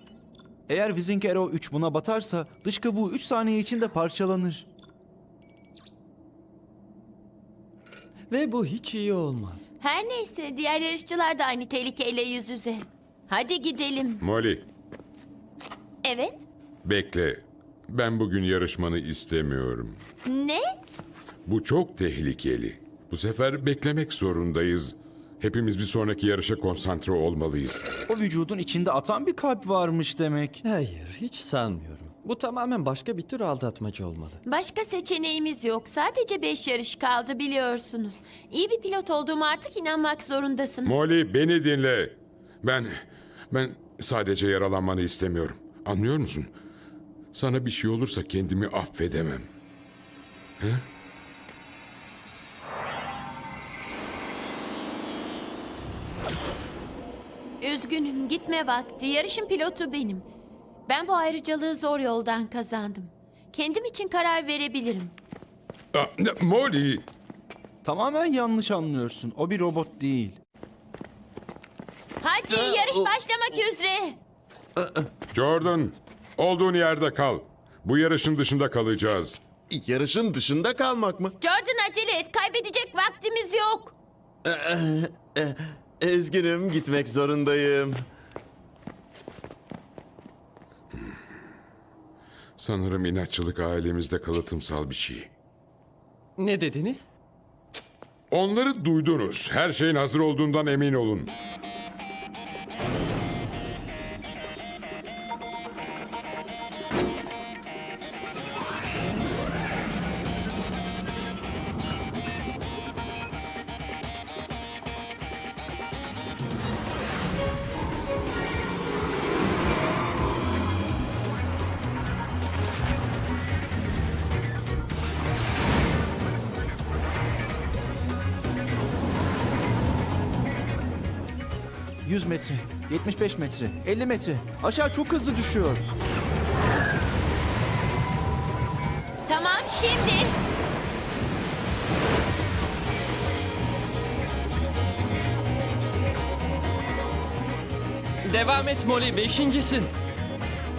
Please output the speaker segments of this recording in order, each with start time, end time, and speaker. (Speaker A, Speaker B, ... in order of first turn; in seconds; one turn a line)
Speaker A: 0.7-4.7
Speaker B: 8.3-9.7
Speaker C: 9.8-14.2
Speaker D: 14.2-14.7
Speaker C: 16.0-16.4
Speaker D: 16.8-20.0
Speaker C: 20.2-20.7
Speaker D: 21.5-27.9
Speaker A: 28.1-30.6
Speaker B: 30.6-34.4
Speaker C: 34.5-40.9
Speaker D: 40.9-46.5
Speaker D: 47.3-49.5
Speaker D: 50.6-50.9
Speaker C: 57.6-60.3
Speaker C: 60.9-65.2
Speaker D: 65.9-67.1
Speaker A: 67.8-70.4
Speaker C: 72.2-74.2
Speaker E: 72.5-73.1
Speaker E: 74.8-75.1
Speaker D: 75.3-79.4
Speaker E: 79.7-81.4
Speaker C: 81.4-84.0
Speaker E: 84.4-88.1
Speaker D: 92.6-95.3
Speaker B: 96.4-97.1
Speaker D: 98.3-101.3
Speaker A: 132.1-135.8
Speaker C: 139.3-140.4
Speaker B: 148.2-149.9